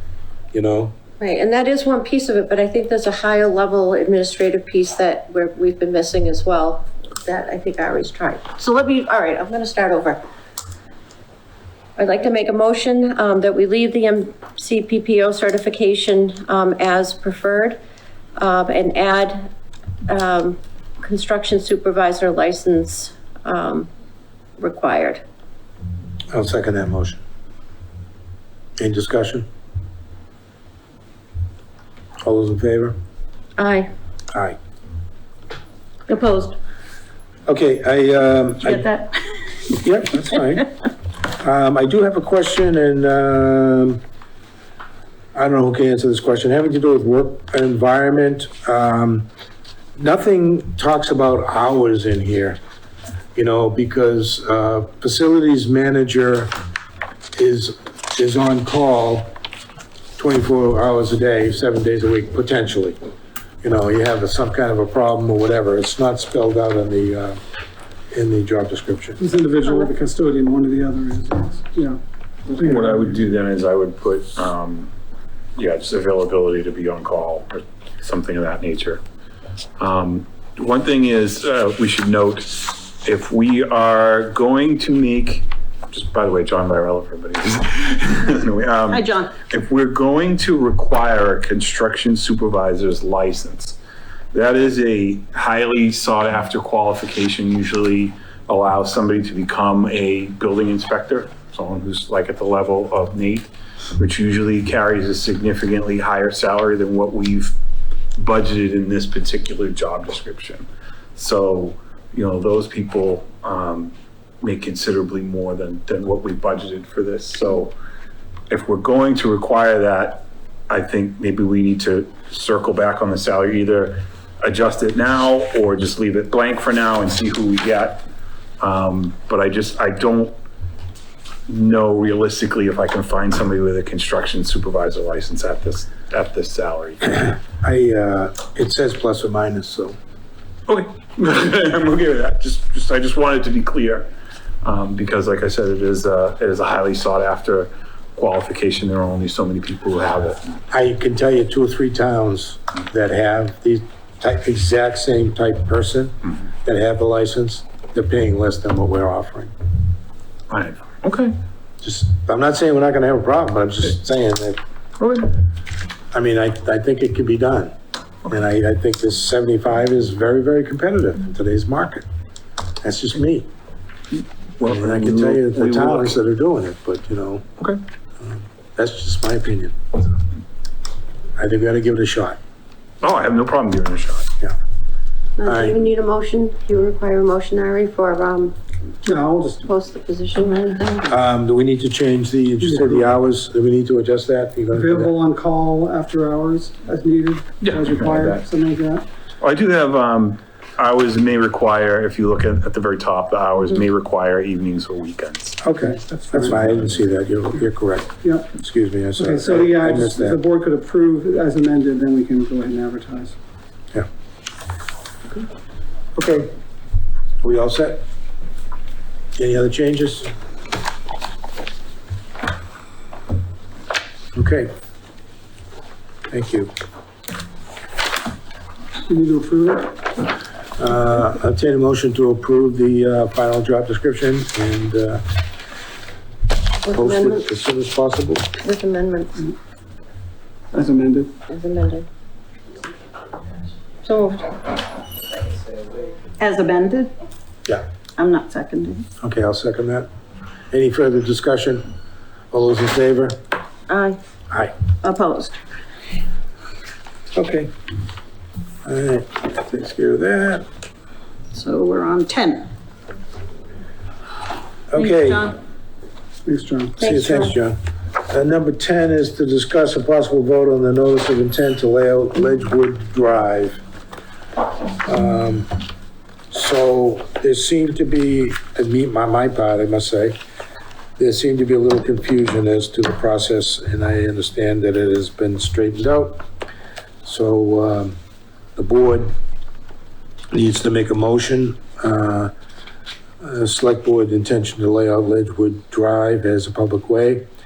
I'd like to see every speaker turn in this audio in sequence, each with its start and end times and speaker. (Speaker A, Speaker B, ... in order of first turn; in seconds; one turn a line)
Speaker A: 0.5-0.9
Speaker B: 1.2-10.2
Speaker B: 12.0-17.8
Speaker B: 18.4-19.5
Speaker B: 20.1-23.9
Speaker B: 24.6-25.2
Speaker A: 26.3-27.2
Speaker A: 28.8-29.5
Speaker A: 32.2-32.9
Speaker B: 33.6-33.9
Speaker A: 34.3-34.6
Speaker C: 36.1-36.6
Speaker A: 37.5-38.9
Speaker C: 38.6-39.5
Speaker A: 39.7-40.7
Speaker A: 41.4-44.0
Speaker A: 45.3-49.3
Speaker A: 50.0-52.6
Speaker A: 53.3-56.5
Speaker A: 57.3-59.3
Speaker A: 60.2-63.0
Speaker A: 63.6-67.4
Speaker A: 68.1-69.2
Speaker D: 69.2-72.0
Speaker E: 72.5-74.9
Speaker E: 75.5-79.0
Speaker E: 79.8-93.8
Speaker C: 88.9-89.3
Speaker E: 94.3-107.5
Speaker E: 108.2-117.7
Speaker E: 118.5-128.0
Speaker E: 128.6-130.3
Speaker E: 131.5-137.3
Speaker A: 137.6-139.9
Speaker E: 140.7-144.1
Speaker E: 144.6-150.6
Speaker A: 150.7-159.5
Speaker E: 160.5-161.4
Speaker A: 161.8-164.6
Speaker E: 165.0-165.4
Speaker A: 166.1-167.7
Speaker A: 168.2-172.1
Speaker A: 172.8-173.5
Speaker E: 174.1-176.2
Speaker A: 174.6-177.4
Speaker A: 178.2-179.9
Speaker A: 181.4-182.4
Speaker E: 183.0-184.3
Speaker B: 185.4-188.6
Speaker A: 185.4-185.8
Speaker D: 189.0-189.6
Speaker B: 189.6-191.1
Speaker A: 191.1-195.1
Speaker D: 194.7-199.0
Speaker E: 197.6-198.4
Speaker E: 199.4-205.6
Speaker A: 205.6-210.4
Speaker D: 209.2-213.3
Speaker A: 216.2-216.5
Speaker A: 217.4-218.0
Speaker A: 219.4-220.3
Speaker A: 224.3-224.7
Speaker A: 226.3-226.7
Speaker D: 229.1-229.8
Speaker A: 230.8-235.2
Speaker B: 236.8-237.4
Speaker A: 236.9-238.5
Speaker B: 238.6-239.3
Speaker D: 240.7-241.3
Speaker B: 241.5-242.1
Speaker B: 244.0-244.6
Speaker C: 246.4-247.1
Speaker C: 248.2-249.1
Speaker A: 249.2-250.1
Speaker A: 250.7-251.8
Speaker A: 252.5-253.4
Speaker C: 255.0-255.6
Speaker A: 257.3-257.7
Speaker A: 258.8-260.6
Speaker C: 261.5-262.7
Speaker A: 264.9-265.5
Speaker C: 264.9-265.5
Speaker D: 266.4-266.9
Speaker B: 267.0-267.6
Speaker A: 267.0-273.8
Speaker A: 275.0-275.7
Speaker A: 276.5-280.4
Speaker A: 281.2-286.4
Speaker A: 287.2-288.2
Speaker A: 288.8-289.3
Speaker A: 290.5-292.5
Speaker A: 293.4-297.4